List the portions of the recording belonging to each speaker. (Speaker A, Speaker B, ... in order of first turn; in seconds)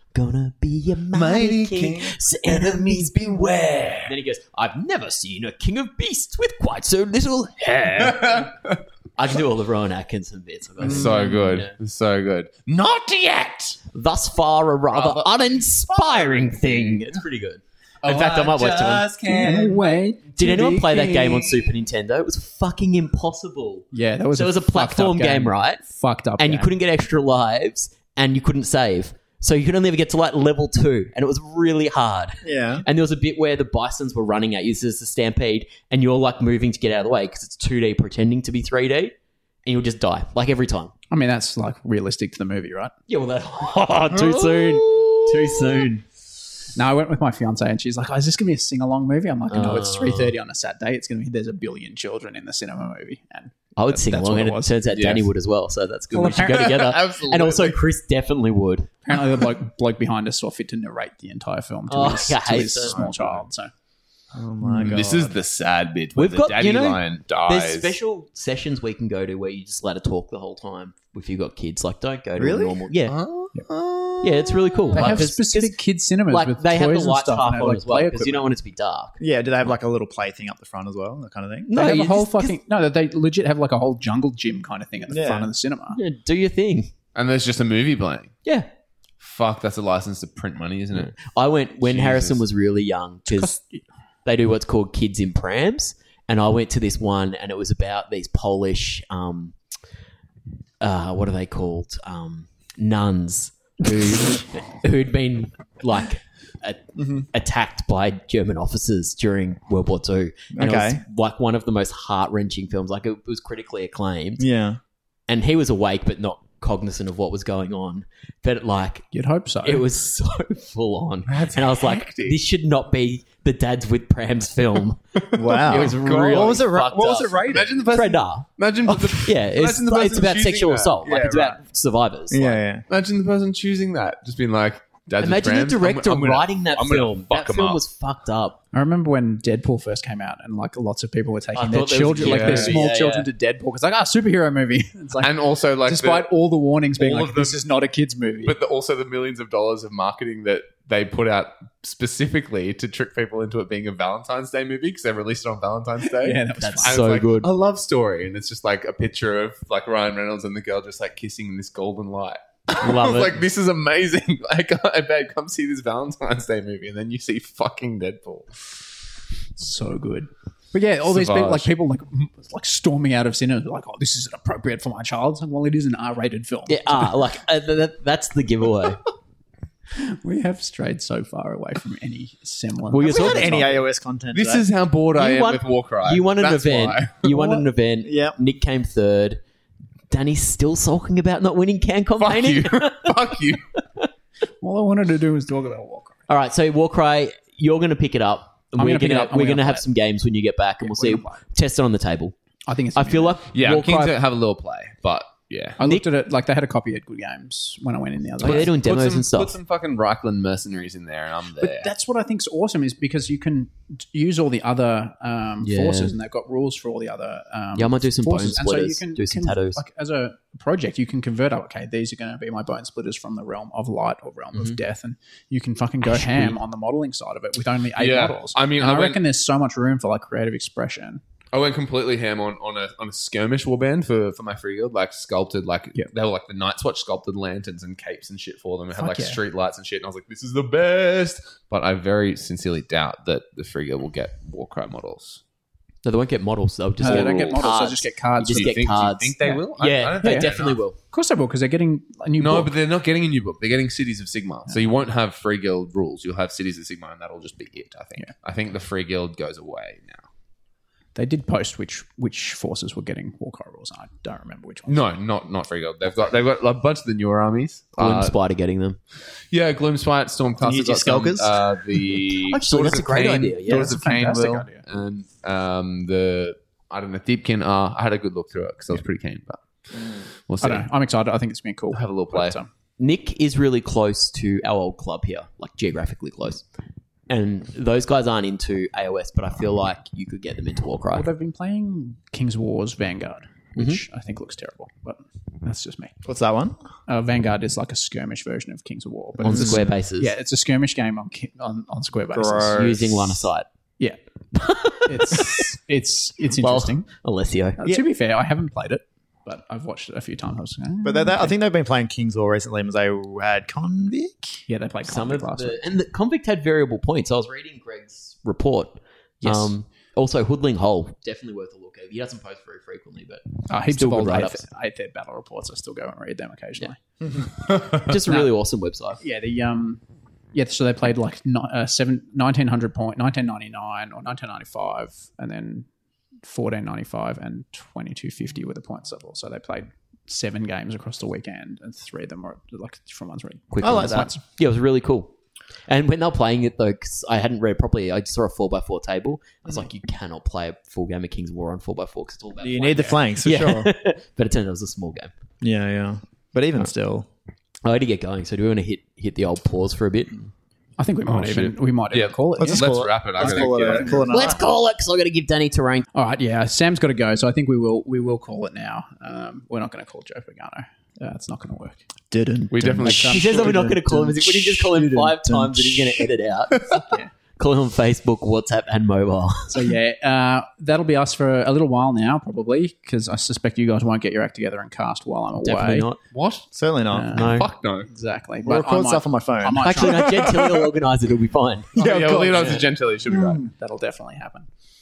Speaker A: 0.1-3.5, 4.0-8.5, 9.2-11.7, 13.9-19.3, 20.4-25.8, 26.4-40.9, 43.1-46.0, 49.5-50.3, 53.8-58.9, 61.9-63.0, 66.1-73.2, 74.2-75.8, 76.3-79.2, 81.7-82.5, 85.9-86.9, 90.9-93.6, 94.2-99.5, 100.8-114.5, 115.3-119.1, 119.6-125.0, 125.5-128.5, 129.2-132.6, 135.2-138.6, 141.5-143.3, 156.6-157.5, 162.8-163.4, 176.7-179.0, 182.9-183.7, 185.2-189.4, 190.1-193.4, 196.3-202.3, 202.9-204.1, 208.4-209.6, 215.6-216.1, 217.8-219.8, 226.1-226.6, 246.0-251.0, 268.0-269.0, 272.5-273.9, 283.0-286.6, 287.3-291.3, 293.8-294.0, 299.4-300.3, 302.7-303.7, 304.5-305.7, 306.6-307.8, 315.0-324.6, 328.0-329.2, 343.7-345.3, 345.9-355.3, 357.8-360.5, 364.3-366.1, 373.2-379.8, 385.6-386.2, 387.3-387.6, 389.8-392.8
Speaker B: 1.1-4.1, 8.0-8.8, 10.8-13.8, 14.9-17.2, 18.0-21.7, 44.1-45.6, 54.9-55.3, 56.1-57.8, 62.9-63.4, 64.6-68.0, 73.1-75.2, 87.1-88.3, 89.2-92.4, 121.3-122.4, 125.3-131.6, 132.9-137.8, 142.2-142.8, 145.2-146.3, 147.0-147.6, 148.4-168.5, 171.0-171.7, 184.3-187.6, 192.2-193.6, 203.5-205.8, 208.4-211.9, 228.0-229.2, 231.5-245.4, 247.0-247.8, 248.5-250.8, 252.4-260.2, 264.9-268.3, 269.5-279.6, 280.5-280.9, 281.9-282.6, 361.3-364.2, 372.7-373.7, 386.3-386.7, 387.3-388.1, 390.1-390.9, 392.0-393.6
Speaker C: 10.8-11.3, 32.4-32.8, 64.3-65.3, 72.4-72.8, 79.2-81.8, 85.1-85.5, 107.0-107.2, 110.5-111.0, 114.4-114.8, 125.3-127.8, 132.3-132.8, 183.0-184.7, 188.0-188.4, 270.6-271.6, 296.2-296.8, 302.3-303.3, 311.0-314.5, 343.8-344.3, 352.6-353.9, 355.6-357.3, 362.6-364.7, 372.3-376.3, 386.7-387.3, 388.6-390.1, 392.0-393.6
Speaker D: 19.3-20.5, 23.9-26.7, 41.1-42.9, 46.7-54.8, 56.1-56.7, 59.0-63.7, 74.9-78.5, 81.7-86.0, 93.3-93.8, 119.1-119.8, 138.7-148.6, 156.0-157.0, 169.6-177.2, 179.9-183.8, 194.6-196.2, 198.8-199.8, 200.8-201.4, 202.7-203.4, 205.8-208.7, 211.6-231.2, 238.9-239.4, 247.0-248.8, 250.2-252.7, 261.1-265.0, 273.7-274.8, 280.6-282.7, 291.1-296.1, 297.1-302.8, 305.0-307.1, 307.8-311.5, 314.7-315.8, 319.4-319.7, 323.7-327.0, 328.2-328.5, 329.2-330.0, 330.5-335.9, 336.4-344.4, 361.0-364.6, 366.1-372.0, 373.0-373.8, 379.7-386.1, 387.1-390.3, 393.6-394.7